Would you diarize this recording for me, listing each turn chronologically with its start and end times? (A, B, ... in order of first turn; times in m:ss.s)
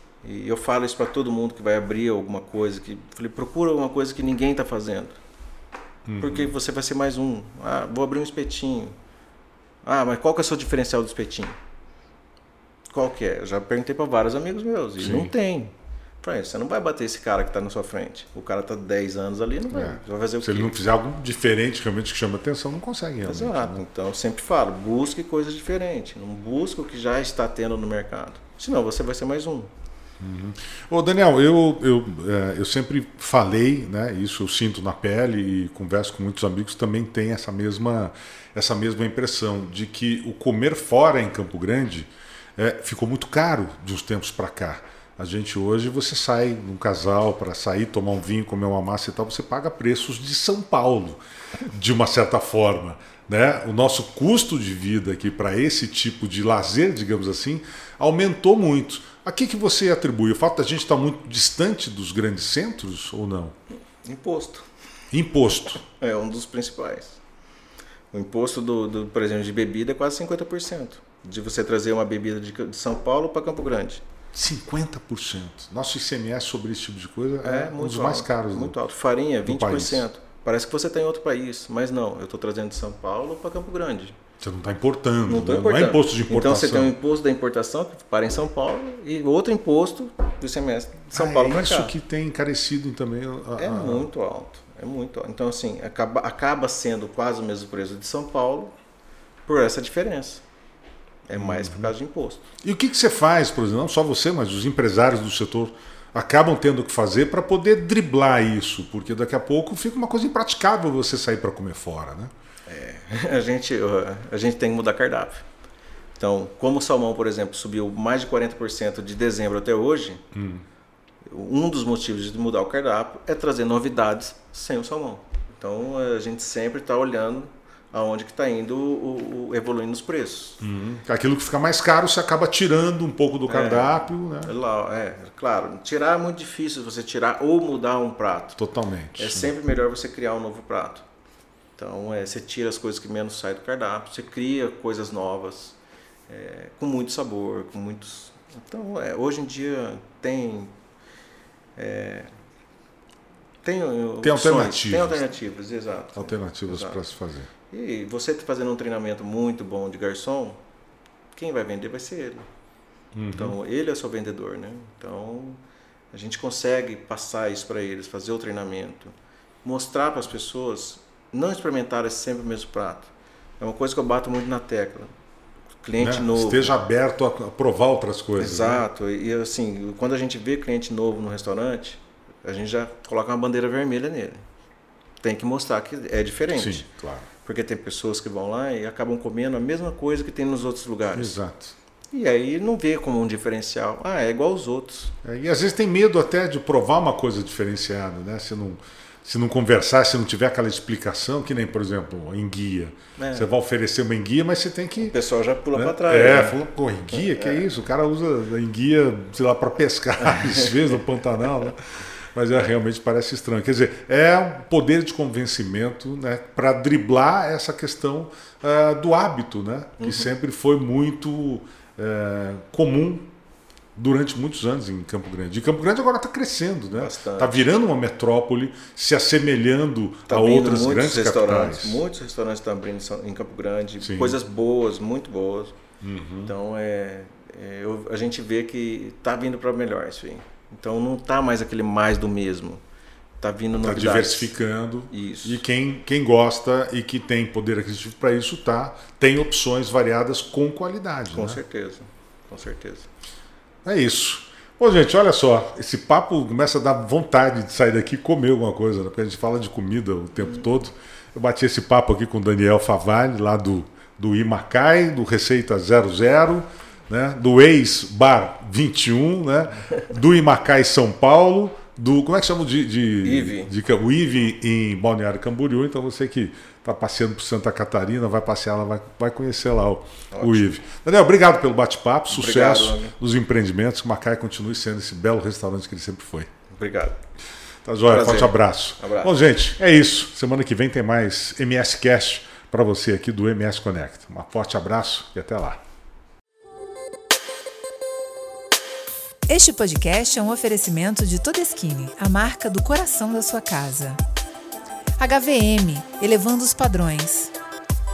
0:00.2-0:05.2 A
0:06.1-0:06.5 B
0:06.2-0:08.9 A
0:09.8-0:11.6 A
0:12.9-0:20.7 A
0:15.0-0:15.3 B
0:19.7-0:23.8 B
0:23.2-0:29.7 A
0:30.2-1:03.5 B
1:04.0-1:04.7 A
1:05.1-1:05.8 B
1:05.8-1:07.2 A
1:08.1-1:14.0 A
1:14.3-1:18.8 B
1:17.4-1:24.2 A
1:19.4-1:20.1 B
1:24.4-1:26.9 B
1:25.2-1:31.9 A
1:31.1-1:34.1 B
1:33.6-1:38.8 A
1:39.4-1:40.4 A
1:41.3-1:42.4 A
1:41.3-1:41.9 B
1:42.6-1:52.3 B
1:52.7-1:55.4 A
1:56.2-2:00.2 A
2:00.3-2:00.6 B
2:01.2-2:10.6 A
2:10.6-2:14.5 B
2:13.5-2:18.6 A
2:18.6-2:19.5 B
2:19.2-2:21.0 A
2:21.8-2:25.8 A
2:26.3-2:30.7 A
2:31.8-2:32.3 A
2:33.6-2:37.0 A
2:34.2-2:35.2 B
2:36.1-2:37.5 B
2:37.7-2:40.6 A
2:41.3-2:42.4 A
2:43.1-2:43.6 B
2:43.3-2:45.6 A
2:46.1-2:55.1 A
2:55.8-2:56.7 A
2:56.0-2:58.8 B
2:58.4-3:04.4 A
3:05.2-3:06.9 A
3:06.6-3:07.3 B
3:07.4-3:11.4 A
3:11.1-3:11.7 B
3:12.1-3:15.2 A
3:15.2-3:25.1 B
3:23.2-3:23.5 A
3:25.0-3:26.6 A
3:25.7-3:43.3 B
3:27.1-3:27.6 A
3:30.2-3:31.0 A
3:40.0-3:40.3 A
3:44.0-3:52.0 B
3:47.0-3:47.6 A
3:50.3-3:55.8 A
3:54.0-3:54.4 B
3:56.0-3:56.5 B
3:56.4-4:02.8 A
4:03.4-4:04.5 A
4:03.8-4:11.6 B
4:05.1-4:05.6 A
4:11.3-4:13.1 A
4:13.8-4:46.5 B
4:33.2-4:33.7 A
4:40.3-4:40.6 A
4:42.3-4:43.1 A
4:46.7-4:47.2 A
4:47.8-4:55.8 B
4:48.0-4:49.3 A
4:59.5-5:04.2 C
5:05.2-5:07.5 C